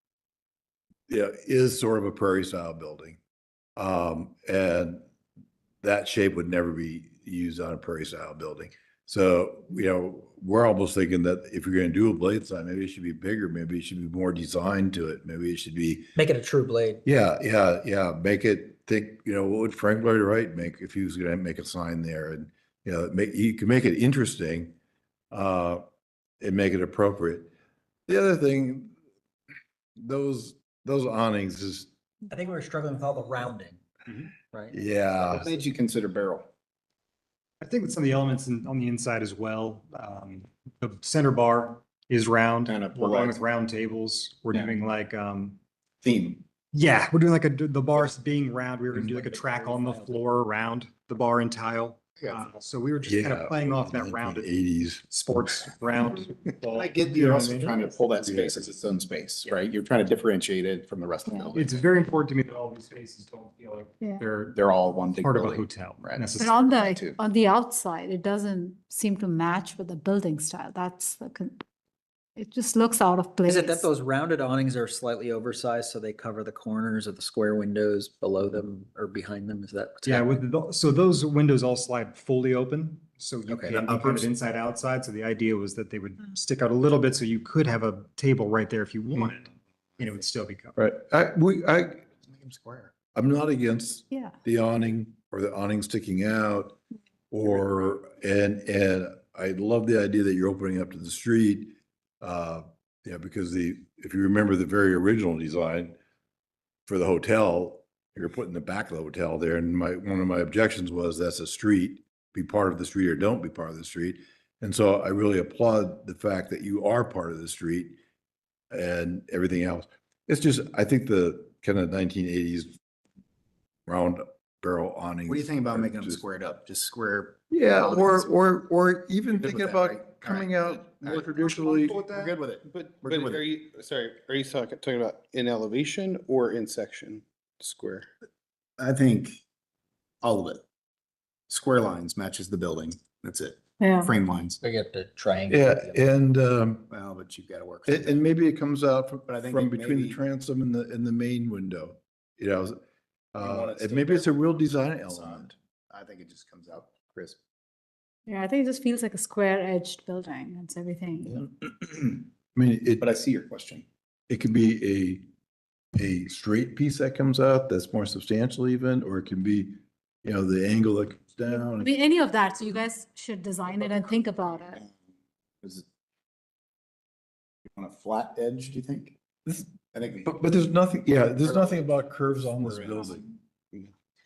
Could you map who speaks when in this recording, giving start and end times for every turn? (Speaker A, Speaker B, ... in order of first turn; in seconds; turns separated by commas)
Speaker A: 1.1-3.2, Speaker A: 3.8-5.0, Speaker A: 5.8-16.1, Speaker B: 16.2-17.0, Speaker A: 17.1-24.8, Speaker A: 25.3-25.8, Speaker A: 26.4-27.5, Speaker A: 28.1-28.9, Speaker A: 30.0-31.9, Speaker B: 32.3-34.0, Speaker B: 34.5-35.5, Speaker A: 34.7-35.5, Speaker C: 35.2-36.5, Speaker D: 37.6-45.6, Speaker C: 42.7-43.5, Speaker C: 46.0-46.4, Speaker D: 46.7-54.5, Speaker B: 49.1-50.1, Speaker C: 52.2-52.5, Speaker A: 53.0-55.1, Speaker D: 55.1-57.9, Speaker C: 56.7-61.7, Speaker A: 58.2-58.6, Speaker D: 61.5-64.6, Speaker C: 64.5-67.2, Speaker D: 65.2-66.6, Speaker E: 66.4-71.6, Speaker E: 72.4-73.9, Speaker B: 73.5-80.3, Speaker D: 80.0-90.8, Speaker B: 83.5-84.3, Speaker A: 90.8-92.1, Speaker C: 92.2-92.9, Speaker A: 93.2-96.8, Speaker A: 97.3-106.0, Speaker A: 106.9-118.0, Speaker A: 118.7-122.8, Speaker A: 123.9-126.2, Speaker C: 125.3-128.3, Speaker A: 127.5-132.0, Speaker C: 129.3-133.5, Speaker D: 131.7-132.3, Speaker F: 132.7-138.1, Speaker C: 138.8-139.4, Speaker C: 140.2-140.6, Speaker C: 141.5-144.6, Speaker E: 143.8-144.1, Speaker B: 144.6-146.1, Speaker A: 145.5-146.9, Speaker C: 146.9-148.3, Speaker A: 147.9-152.8, Speaker C: 149.3-150.2, Speaker A: 153.3-155.5, Speaker C: 153.4-157.4, Speaker E: 158.3-161.4, Speaker A: 162.5-163.1, Speaker C: 163.0-163.8, Speaker A: 164.3-165.3, Speaker A: 165.9-171.9, Speaker E: 171.6-174.8, Speaker C: 173.7-174.2, Speaker C: 177.7-179.2, Speaker A: 179.5-179.7, Speaker C: 179.9-180.3, Speaker A: 180.2-183.3, Speaker C: 181.4-181.9, Speaker C: 182.6-183.0